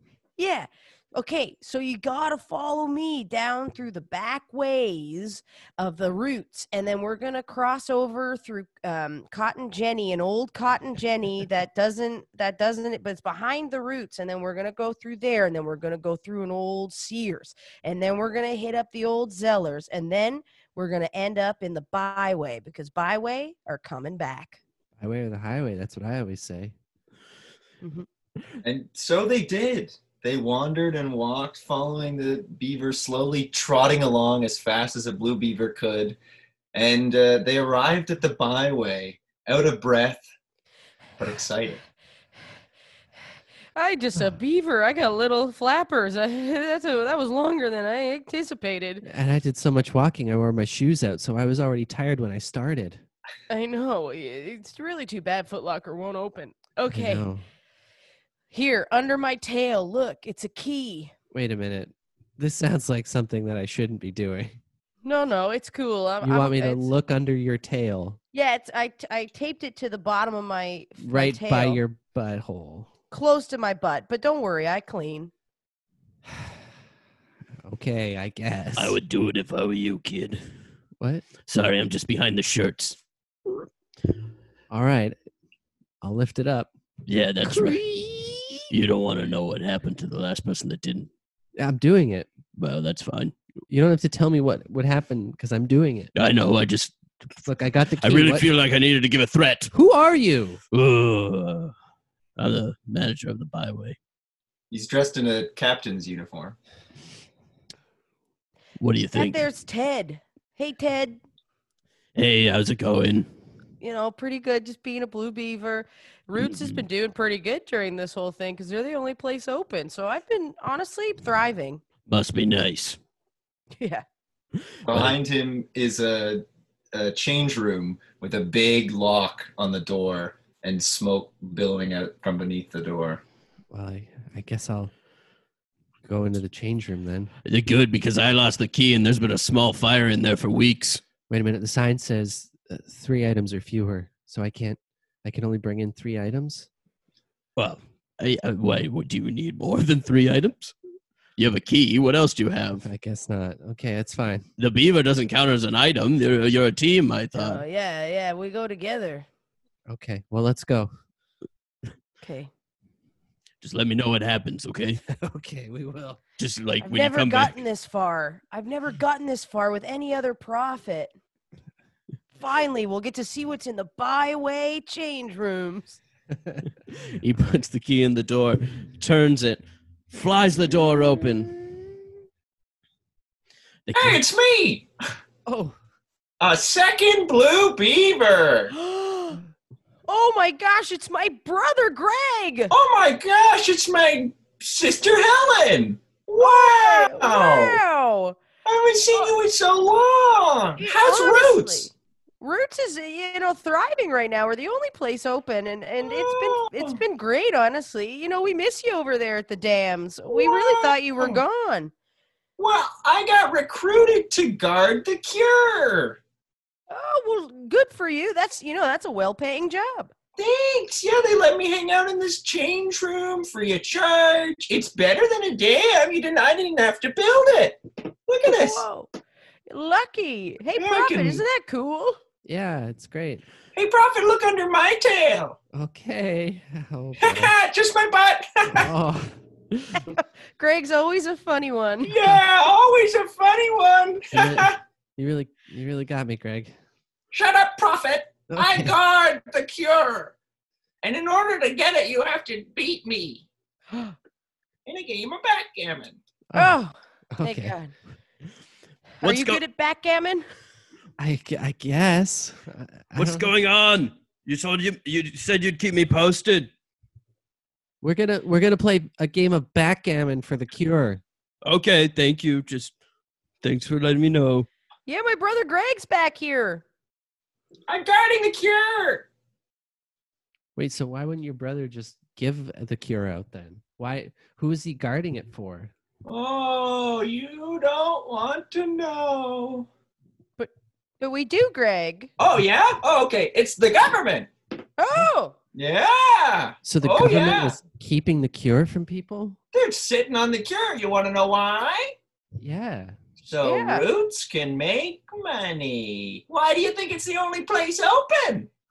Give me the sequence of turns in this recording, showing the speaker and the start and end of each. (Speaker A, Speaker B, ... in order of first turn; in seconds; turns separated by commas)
Speaker A: 0.4-24.6, Speaker B: 25.0-26.7, Speaker A: 27.8-28.1, Speaker C: 28.6-36.2, Speaker C: 36.7-40.2, Speaker C: 41.2-41.8, Speaker A: 43.8-49.0, Speaker B: 49.0-53.0, Speaker A: 53.5-57.3, Speaker B: 56.9-57.4, Speaker A: 58.5-61.1, Speaker B: 61.3-64.6, Speaker A: 65.0-66.9, Speaker B: 66.2-68.2, Speaker A: 68.3-71.8, Speaker B: 71.0-72.9, Speaker A: 73.1-75.3, Speaker B: 77.6-79.0, Speaker D: 78.8-80.4, Speaker B: 81.0-81.2, Speaker D: 81.5-83.0, Speaker B: 84.7-85.2, Speaker B: 86.0-86.7, Speaker D: 87.1-87.8, Speaker B: 87.4-88.7, Speaker D: 88.7-91.1, Speaker B: 91.6-92.3, Speaker D: 92.5-93.3, Speaker B: 93.7-96.1, Speaker D: 96.2-97.0, Speaker B: 97.4-98.5, Speaker D: 98.0-99.7, Speaker B: 99.7-100.6, Speaker D: 100.7-101.7, Speaker D: 102.4-104.0, Speaker C: 104.7-106.5, Speaker D: 108.8-109.4, Speaker A: 109.1-111.2, Speaker D: 112.2-113.3, Speaker A: 113.8-121.8, Speaker D: 116.4-116.8, Speaker D: 122.1-123.0, Speaker A: 123.8-124.0, Speaker C: 124.8-133.2, Speaker B: 133.7-134.9, Speaker B: 136.0-137.3, Speaker D: 137.4-141.0, Speaker B: 141.3-146.7, Speaker D: 147.6-150.7, Speaker D: 151.4-152.8, Speaker B: 152.8-154.4, Speaker D: 154.6-157.6, Speaker A: 157.3-159.2, Speaker B: 159.9-160.9, Speaker A: 162.2-162.5, Speaker D: 163.6-165.0, Speaker B: 165.1-166.2, Speaker D: 166.4-167.5, Speaker A: 166.8-171.1, Speaker A: 172.3-176.0, Speaker D: 176.9-181.6, Speaker D: 183.9-184.2, Speaker C: 183.9-184.9, Speaker B: 185.4-185.8, Speaker C: 186.4-188.7, Speaker A: 188.7-189.4, Speaker A: 190.1-192.7, Speaker C: 192.7-197.8, Speaker A: 196.4-198.4, Speaker C: 198.6-201.9, Speaker A: 200.8-211.9, Speaker C: 206.0-207.0, Speaker C: 210.3-211.4, Speaker C: 212.6-216.2, Speaker A: 216.9-220.1, Speaker C: 220.3-228.8, Speaker A: 228.4-229.1, Speaker A: 229.7-232.2, Speaker C: 230.8-231.4, Speaker B: 232.4-233.4, Speaker C: 233.8-235.6, Speaker B: 235.7-237.5, Speaker C: 237.2-238.9, Speaker B: 238.7-239.3, Speaker A: 240.1-242.1, Speaker C: 242.0-244.8, Speaker B: 244.3-246.7, Speaker C: 247.3-250.3, Speaker B: 248.5-248.9, Speaker C: 251.0-253.4, Speaker C: 254.8-256.2, Speaker B: 256.5-256.8, Speaker A: 256.5-257.9, Speaker B: 257.3-257.8, Speaker D: 259.2-259.6, Speaker A: 259.2-260.5, Speaker B: 261.2-263.5, Speaker D: 263.1-266.7, Speaker B: 268.0-271.2, Speaker D: 271.6-272.9, Speaker D: 273.6-274.7, Speaker A: 275.1-276.8, Speaker C: 277.9-279.3, Speaker B: 280.8-285.9, Speaker C: 286.2-289.9, Speaker A: 290.6-292.3, Speaker C: 292.4-294.5, Speaker A: 295.0-295.6, Speaker C: 295.7-297.8, Speaker B: 296.8-299.6, Speaker C: 299.7-302.1, Speaker B: 302.6-303.2, Speaker C: 303.4-308.7, Speaker A: 303.6-304.1